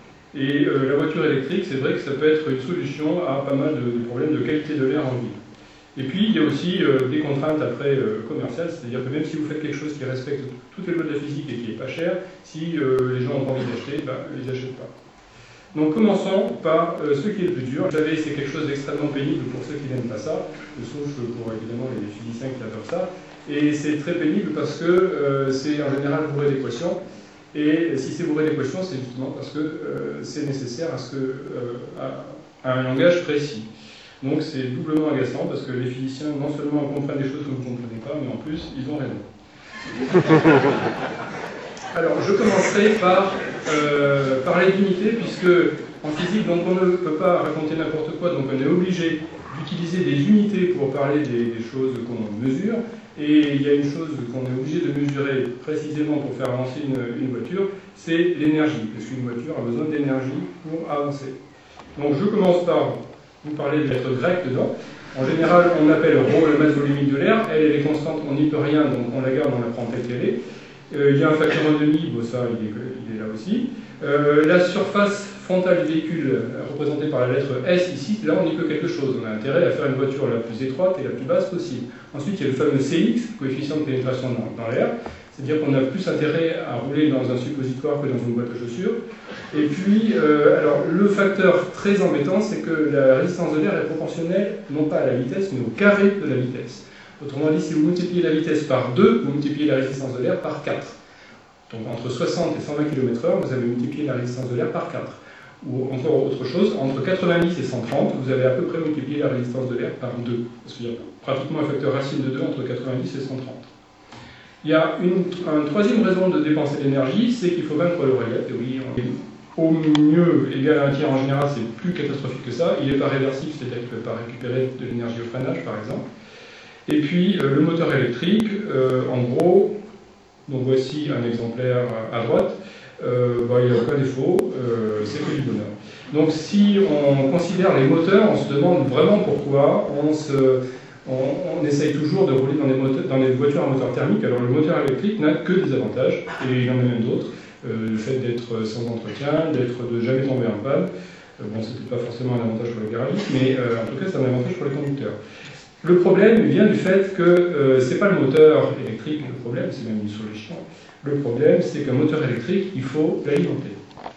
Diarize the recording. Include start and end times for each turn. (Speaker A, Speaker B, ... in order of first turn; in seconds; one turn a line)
Speaker A: 0.3-5.4
Speaker A: 6.0-14.9
Speaker A: 15.7-27.0
Speaker A: 27.5-33.7
Speaker A: 34.2-39.2
Speaker A: 42.0-61.4
Speaker A: 62.0-70.4
Speaker A: 70.9-89.0
Speaker A: 89.5-101.0
Speaker A: 101.7-113.7
Speaker A: 114.6-126.0
Speaker A: 126.9-129.7
Speaker A: 130.5-150.9
Speaker A: 151.4-155.2
Speaker A: 155.8-163.8